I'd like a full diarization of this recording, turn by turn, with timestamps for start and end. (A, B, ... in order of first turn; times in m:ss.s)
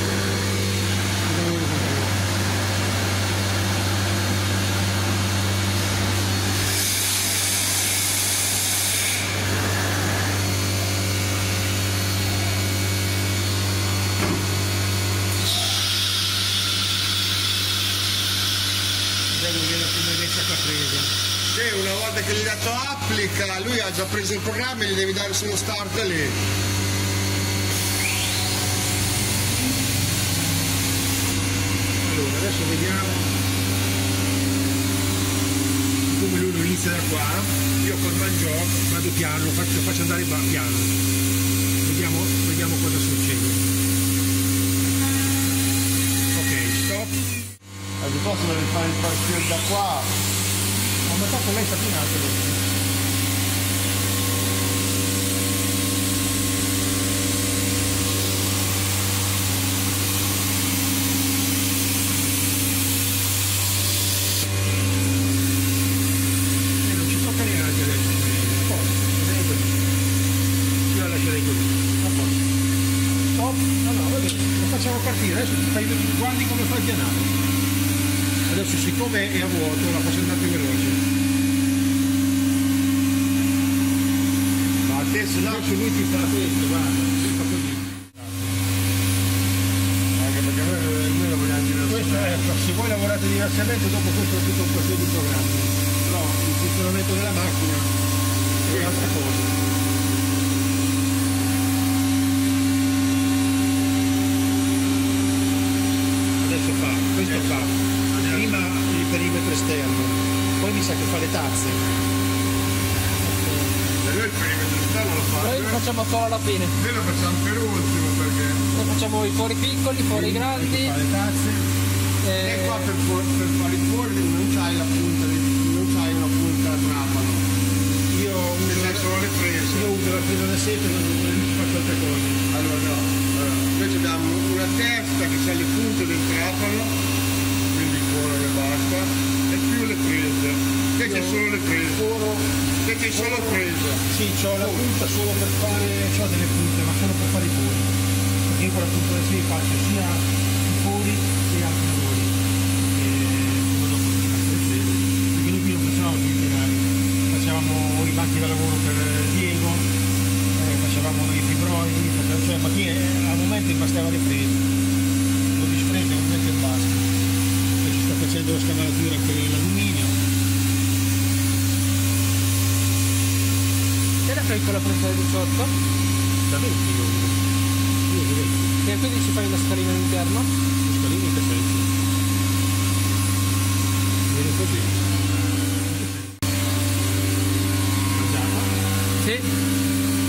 0:01.3-0:02.2 A
0:19.3-0:21.1 A
0:21.5-0:26.4 B
0:32.0-0:33.3 A
0:36.1-0:40.9 A
0:41.8-0:43.6 A
0:46.3-0:47.1 A
0:48.0-0:50.1 B
0:51.1-0:52.6 A
1:06.8-1:09.7 A
1:10.9-1:12.4 A
1:13.3-1:17.3 A
1:18.5-1:21.0 A
1:24.9-1:25.7 B
1:25.4-1:28.6 A
1:30.2-1:32.5 B
1:31.8-1:37.9 A
1:38.6-1:39.6 A
1:38.7-1:39.0 B
1:46.4-1:51.8 A
1:47.2-1:48.6 B
1:53.2-1:53.7 C
1:54.0-1:55.8 B
1:55.4-1:56.7 C
1:56.8-1:58.8 B
1:58.8-2:00.9 C
2:00.1-2:01.6 A
2:02.2-2:02.9 C
2:02.4-2:07.5 B
2:08.1-2:09.1 A
2:08.6-2:10.0 B
2:09.7-2:12.4 A
2:12.5-2:16.9 B
2:17.7-2:22.0 B
2:21.0-2:22.5 A
2:22.8-2:24.0 B
2:23.1-2:27.9 A
2:24.6-2:24.9 B
2:28.4-2:39.9 A
2:40.5-2:44.6 A
2:45.5-2:47.1 A
2:47.8-2:50.2 A
2:54.3-2:55.7 C
2:56.5-2:57.4 A
2:58.1-2:58.8 A
2:58.8-3:00.5 C
3:00.8-3:01.9 A
3:04.3-3:05.0 A
3:05.9-3:06.3 A
3:08.1-3:08.7 A